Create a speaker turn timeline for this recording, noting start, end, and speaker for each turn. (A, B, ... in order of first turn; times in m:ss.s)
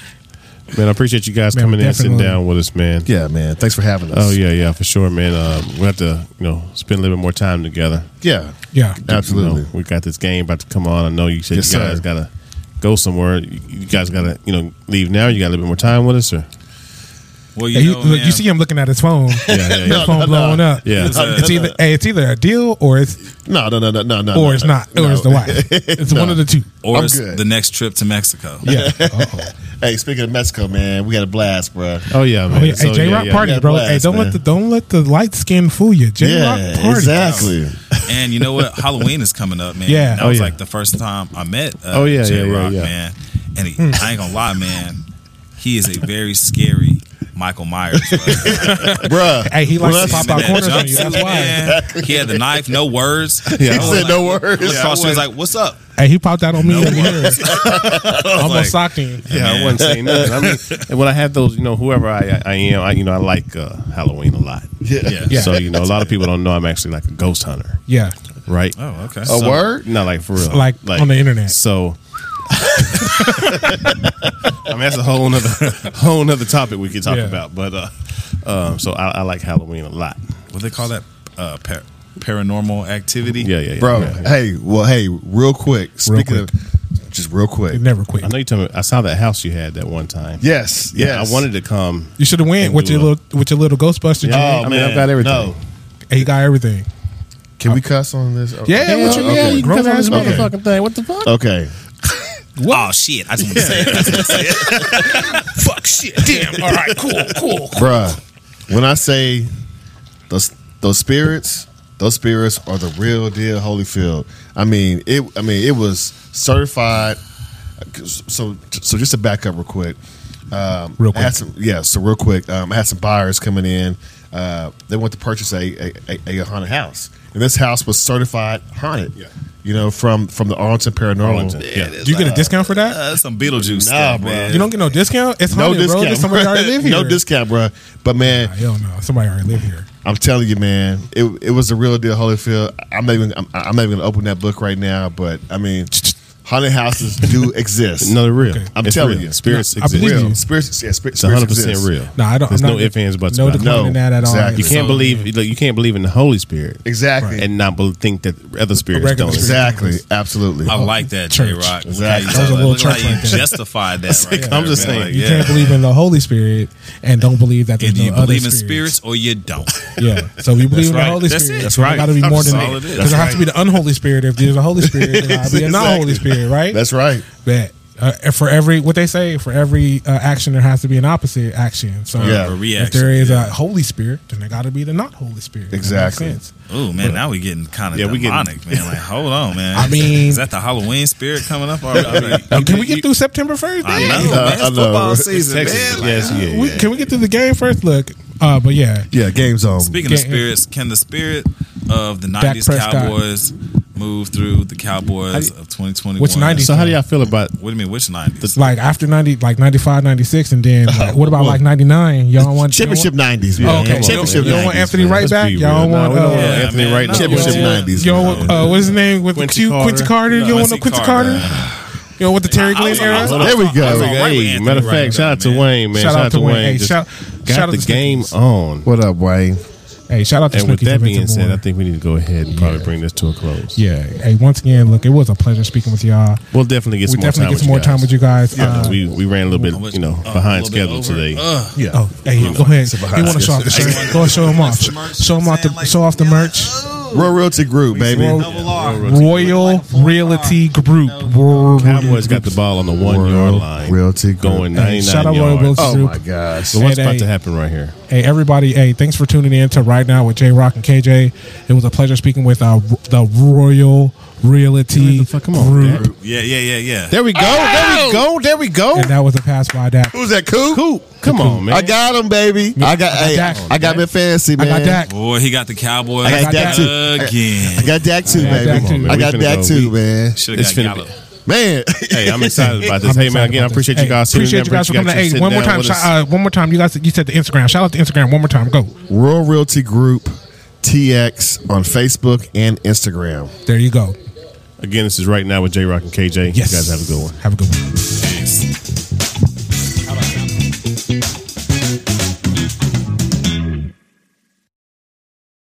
0:00.7-0:03.1 A
0:01.5-0:02.4 B
0:03.0-0:04.4 C
0:04.1-0:08.1 A
0:08.2-0:09.7 C
0:08.7-0:09.0 B
0:09.1-0:16.5 A
0:11.5-0:12.0 C
0:17.6-0:18.4 D
0:17.7-0:23.3 B
0:19.3-0:21.8 C
0:19.5-0:20.3 A
0:20.8-0:21.2 A
0:21.0-0:21.6 D
0:23.4-0:27.4 C
0:24.3-0:26.7 B
0:26.8-0:28.7 D
0:28.6-0:29.5 B
0:28.6-0:34.4 C
0:32.1-0:33.5 A
0:32.5-0:37.4 B
0:36.2-0:38.6 C
0:37.1-0:45.0 D
0:39.9-0:40.3 B
0:40.2-0:40.6 A
0:41.9-0:42.9 A
0:43.8-0:44.0 B
0:45.6-0:49.1 D
0:48.0-0:52.6 C
0:48.4-0:51.6 B
0:49.7-0:55.8 D
0:53.4-0:55.3 C
0:53.6-0:54.2 A
0:56.0-0:57.6 B
0:56.6-0:58.7 D
0:56.9-0:58.8 C
0:58.4-0:59.2 B
0:59.2-1:04.7 A
0:59.3-1:00.8 D
0:59.8-1:00.6 C
1:04.8-1:05.5 C
1:05.0-1:06.2 D
1:05.3-1:05.6 B
1:05.3-1:07.8 A
1:07.9-1:08.2 B
1:08.5-1:08.8 A
1:08.8-1:09.7 D
1:09.2-1:10.0 C
1:09.3-1:12.0 A
1:10.4-1:11.6 B
1:12.7-1:13.7 A
1:12.8-1:13.9 B
1:14.5-1:20.2 A
1:17.1-1:17.4 B
1:20.5-1:23.5 D
1:23.4-1:24.3 A
1:23.8-1:27.8 C
1:26.1-1:26.5 B
1:27.7-1:28.3 B
1:28.2-1:30.4 A
1:30.4-1:31.5 C
1:30.9-1:33.1 A
1:32.2-1:34.7 B
1:34.2-1:35.6 A
1:34.3-1:35.6 C
1:34.7-1:35.1 D
1:36.1-1:36.9 B
1:37.6-1:40.5 C
1:38.6-1:40.5 B
1:38.8-1:41.4 A
1:41.2-1:41.7 C
1:42.6-1:42.9 B
1:42.7-1:45.4 D
1:43.5-1:44.4 A
1:43.6-1:45.3 C
1:45.0-1:48.0 B
1:46.4-1:46.8 C
1:47.7-1:49.5 C
1:50.3-1:57.2 C
1:57.8-2:00.0 C
2:00.5-2:12.6 C
2:01.0-2:01.4 B
2:11.2-2:12.0 A
2:11.6-2:14.7 D
2:12.0-2:13.0 B
2:13.5-2:14.7 C
2:14.5-2:17.2 B
2:15.5-2:18.5 C
2:18.2-2:19.9 B
2:20.0-2:25.9 C
2:26.4-2:28.2 C
2:28.0-2:30.4 A
2:28.4-2:28.7 B
2:28.7-2:31.9 C
2:29.4-2:30.4 B
2:31.2-2:33.8 A
2:32.2-2:35.3 B
2:33.5-2:34.8 C
2:34.6-2:36.8 A
2:34.6-2:35.0 D
2:36.8-2:37.5 C
2:37.2-2:37.4 B
2:37.4-2:39.6 A
2:38.9-2:40.0 B
2:39.1-2:40.7 C
2:40.7-2:45.8 D
2:40.7-2:43.5 B
2:41.8-2:43.3 C
2:44.1-2:45.7 A
2:44.3-2:48.9 B
2:47.8-2:49.9 D
2:50.0-2:56.8 B
2:50.7-2:52.8 A
2:50.8-2:53.5 C
2:52.2-2:53.3 D
2:54.8-2:57.3 C
2:57.4-3:06.5 B
3:02.1-3:03.5 D
3:02.2-3:02.6 C
3:05.7-3:06.4 C
3:06.7-3:12.7 D
3:07.9-3:08.5 A
3:09.7-3:10.4 B
3:11.9-3:13.1 A
3:12.5-3:14.5 B
3:13.8-3:16.5 D
3:13.9-3:14.5 A
3:14.1-3:16.2 C
3:15.4-3:16.9 A
3:16.2-3:19.1 B
3:19.1-3:20.0 C
3:19.8-3:26.9 D
3:20.0-3:20.4 B
3:22.4-3:23.2 B
3:26.2-3:27.0 B
3:26.5-3:27.6 A
3:27.5-3:28.7 D
3:28.6-3:41.6 B
3:30.9-3:31.6 C
3:32.4-3:35.3 C
3:33.6-3:40.6 A
3:36.3-3:38.6 D
3:37.1-3:38.7 C
3:40.3-3:41.7 D
3:41.2-3:41.9 C
3:42.2-3:43.4 B
3:42.5-3:45.7 D
3:42.8-3:48.9 A
3:43.3-3:44.2 C
3:44.8-3:45.1 B
3:45.9-3:48.4 B
3:48.8-3:49.6 C
3:50.1-3:51.6 B
3:50.5-3:53.8 A
3:52.5-3:52.9 B
3:53.8-3:56.4 B
3:56.5-4:01.5 A
3:57.0-3:59.8 B
3:58.5-3:58.8 C
3:59.7-4:01.8 D
4:01.7-4:04.4 C
4:01.9-4:06.8 B
4:02.4-4:07.4 D
4:02.4-4:02.7 A
4:07.1-4:08.5 C
4:07.9-4:12.6 B
4:08.1-4:12.2 D
4:08.2-4:09.6 A
4:11.8-4:16.0 A
4:13.0-4:14.8 C
4:14.7-4:16.2 B
4:15.8-4:16.8 C
4:16.6-4:18.0 A
4:16.7-4:17.3 B
4:18.1-4:26.1 B
4:25.0-4:26.1 A
4:26.0-4:27.2 D
4:27.1-4:28.3 A
4:27.3-4:29.1 C
4:28.9-4:30.1 B
4:30.1-4:30.8 C
4:30.7-4:32.0 A
4:31.2-4:31.7 B
4:31.6-4:35.0 C
4:32.8-4:34.0 B
4:33.5-4:34.0 A
4:34.6-4:35.1 B
4:35.1-4:38.0 D
4:36.2-4:40.4 C
4:36.2-4:36.9 B
4:38.2-4:39.9 A
4:38.3-4:39.2 B
4:40.4-4:41.1 D
4:40.5-4:41.2 A
4:41.5-4:43.0 C
4:42.1-4:46.1 A
4:42.6-4:49.0 B
4:49.1-4:53.5 C
4:53.7-4:54.2 B
4:54.8-4:57.4 A
4:56.5-4:57.9 B
4:58.2-4:58.6 D